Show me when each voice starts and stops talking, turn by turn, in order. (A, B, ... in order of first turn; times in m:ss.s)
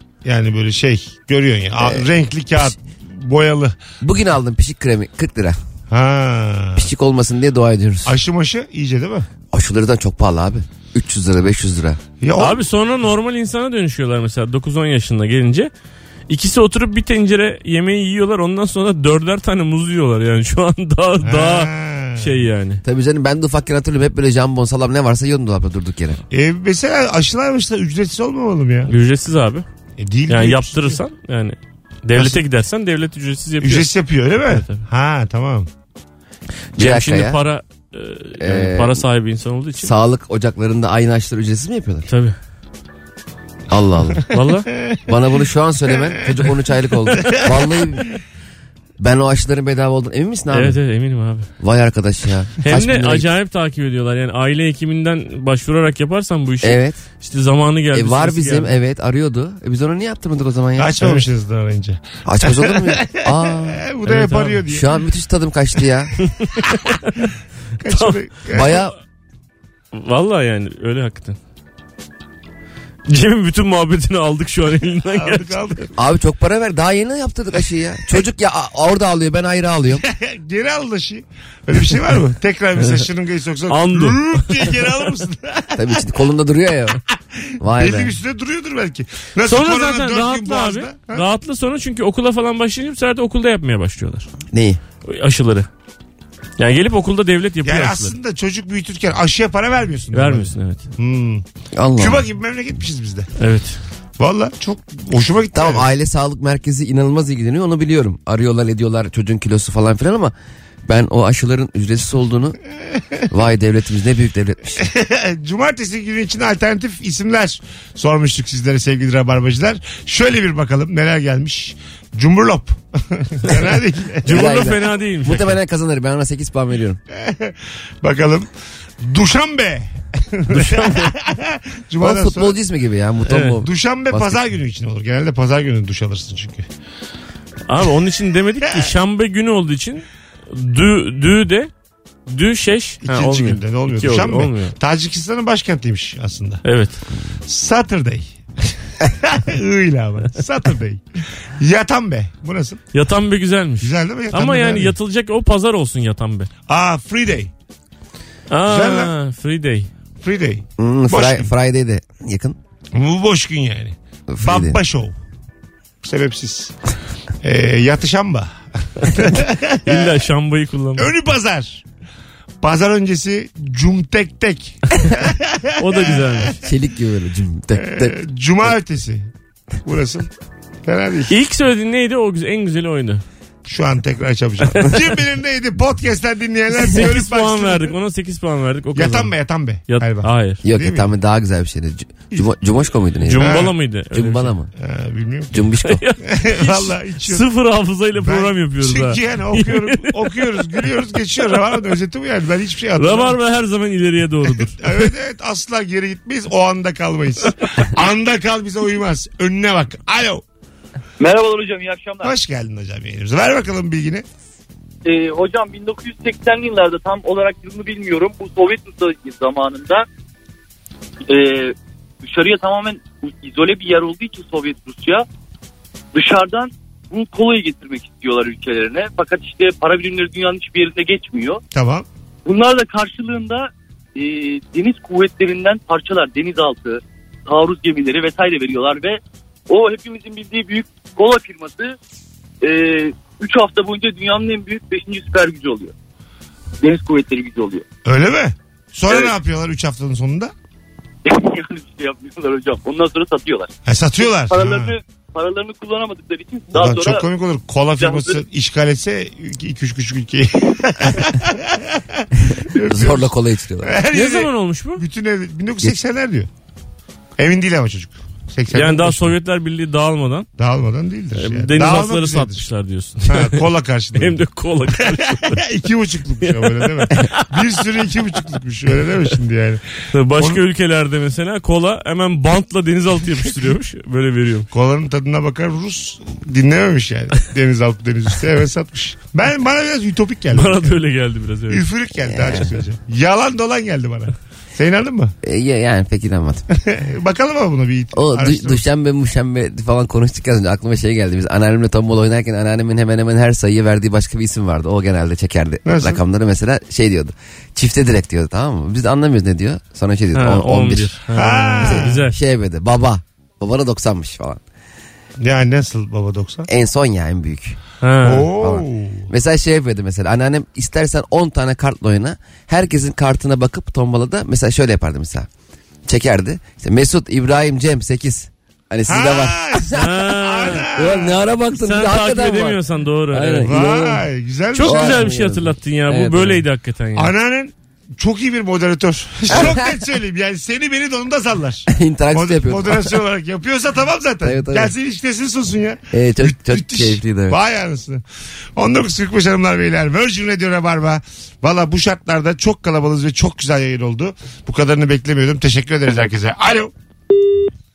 0:00.2-0:03.8 A
0:01.8-0:02.7 B
0:04.0-0:05.6 B
0:05.9-0:06.9 A
0:06.8-0:08.2 B
0:08.0-0:09.3 A
0:09.5-0:12.0 B
0:12.2-0:12.6 A
0:12.4-0:15.7 C
0:16.3-0:22.8 C
0:21.2-0:22.4 A
0:22.8-0:26.2 B
0:26.3-0:28.9 A
0:28.9-0:29.6 C
0:30.0-0:31.0 A
0:30.3-0:33.9 C
0:32.2-0:32.4 A
0:33.6-0:35.7 A
0:34.4-0:34.8 C
0:36.8-0:37.4 B
0:36.8-0:39.9 C
0:38.4-0:39.0 B
0:39.8-0:42.1 B
0:42.1-0:42.4 C
0:43.7-0:44.3 B
0:44.3-0:44.7 C
0:45.1-0:48.1 B
0:47.2-0:47.6 A
0:49.0-0:50.8 B
0:50.5-0:51.5 C
0:51.6-0:53.3 B
0:52.6-0:58.7 C
0:56.6-0:57.0 B
0:57.9-1:01.2 B
1:00.8-1:04.9 A
1:02.2-1:03.8 B
1:04.0-1:04.6 C
1:04.7-1:06.2 B
1:06.2-1:06.7 C
1:07.8-1:08.8 A
1:07.9-1:08.8 C
1:08.5-1:09.0 B
1:09.9-1:11.4 C
1:13.1-1:15.8 C
1:15.1-1:15.9 A
1:16.0-1:20.0 B
1:20.0-1:25.9 A
1:23.7-1:24.9 C
1:25.8-1:27.0 B
1:27.4-1:31.2 A
1:27.6-1:28.2 B
1:29.4-1:34.3 C
1:34.5-1:34.8 B
1:35.0-1:35.7 C
1:36.6-1:38.2 C
1:37.6-1:41.4 A
1:40.1-1:40.8 C
1:41.8-1:42.2 B
1:42.0-1:43.3 A
1:43.4-1:43.8 C
1:44.2-1:45.9 A
1:45.5-1:50.3 B
1:50.9-1:52.6 B
1:53.3-1:54.8 B
1:54.8-2:04.5 A
2:04.3-2:05.6 C
2:04.3-2:07.0 B
2:07.1-2:08.5 A
2:09.0-2:12.6 A
2:10.5-2:11.1 C
2:12.0-2:14.4 B
2:13.3-2:13.6 C
2:13.6-2:16.7 A
2:17.7-2:21.7 C
2:22.3-2:24.7 C
2:23.0-2:26.6 A
2:26.6-2:27.0 C
2:27.5-2:28.3 A
2:29.0-2:31.0 A
2:31.6-2:32.8 A
2:32.9-2:36.5 C
2:33.8-2:34.9 A
2:36.7-2:37.5 A
2:38.5-2:39.9 C
2:38.7-2:39.1 A
2:40.2-2:41.5 A
2:40.8-2:42.6 B
2:42.9-2:45.2 A
2:44.3-2:44.8 B
2:46.0-2:46.7 A
2:47.4-2:50.2 A
2:49.9-2:51.1 C
2:51.0-2:51.8 A
2:52.6-2:56.5 A
2:55.8-2:56.6 C
2:56.6-2:58.2 B
2:57.8-2:59.3 A
2:59.8-3:00.3 A
3:00.9-3:01.3 A
3:01.3-3:03.2 C
3:03.7-3:07.9 A
3:06.8-3:09.3 C
3:08.9-3:11.1 A
3:09.9-3:10.6 C
3:10.6-3:14.7 B
3:13.2-3:14.5 C
3:13.4-3:13.7 A
3:14.8-3:15.6 A
3:15.5-3:16.0 B
3:15.8-3:20.8 C
3:16.3-3:17.5 A
3:18.2-3:23.4 A
3:23.0-3:25.1 C
3:24.7-3:30.4 A
3:31.2-3:32.3 D
3:32.2-3:34.2 A
3:35.0-3:40.1 D
3:41.3-3:45.2 D
3:46.1-3:51.6 D
3:51.7-3:52.1 A
3:52.4-4:02.0 D
4:02.6-4:05.9 D
4:06.8-4:07.8 D
4:08.0-4:10.5 A
4:09.1-4:09.3 D
4:11.2-4:17.3 D
4:13.9-4:14.9 A
4:16.7-4:23.3 A
4:18.0-4:18.4 D
4:22.7-4:24.0 B
4:23.8-4:26.5 A
4:24.1-4:25.0 C
4:27.4-4:29.3 A
4:28.7-4:30.5 C
4:30.6-4:32.6 A
4:31.4-4:33.6 C
4:33.3-4:39.8 A
4:34.2-4:35.6 C
4:36.4-4:37.6 C
4:40.1-4:44.7 C
4:40.3-4:40.6 A
4:44.7-4:51.0 A
4:50.5-4:51.9 C
4:51.7-4:55.3 A
4:52.3-4:52.7 B
4:55.4-4:56.7 B
4:56.9-4:58.8 A
4:58.1-5:11.2 B
5:05.9-5:06.2 A
5:10.3-5:12.4 C
5:11.3-5:12.2 A
5:11.8-5:14.6 B
5:15.4-5:16.7 A
5:16.7-5:17.8 B
5:18.0-5:18.5 C
5:18.2-5:19.3 A
5:18.4-5:25.5 B
5:26.1-5:30.2 B
5:29.1-5:31.3 A
5:29.9-5:30.9 C
5:30.7-5:36.7 B
5:31.8-5:33.7 C
5:33.6-5:35.3 A
5:34.7-5:37.3 C
5:37.2-5:48.2 A
5:39.5-5:39.9 B
5:41.9-5:43.2 B
5:44.4-5:44.9 B
5:46.1-5:47.6 B
5:48.8-5:56.9 A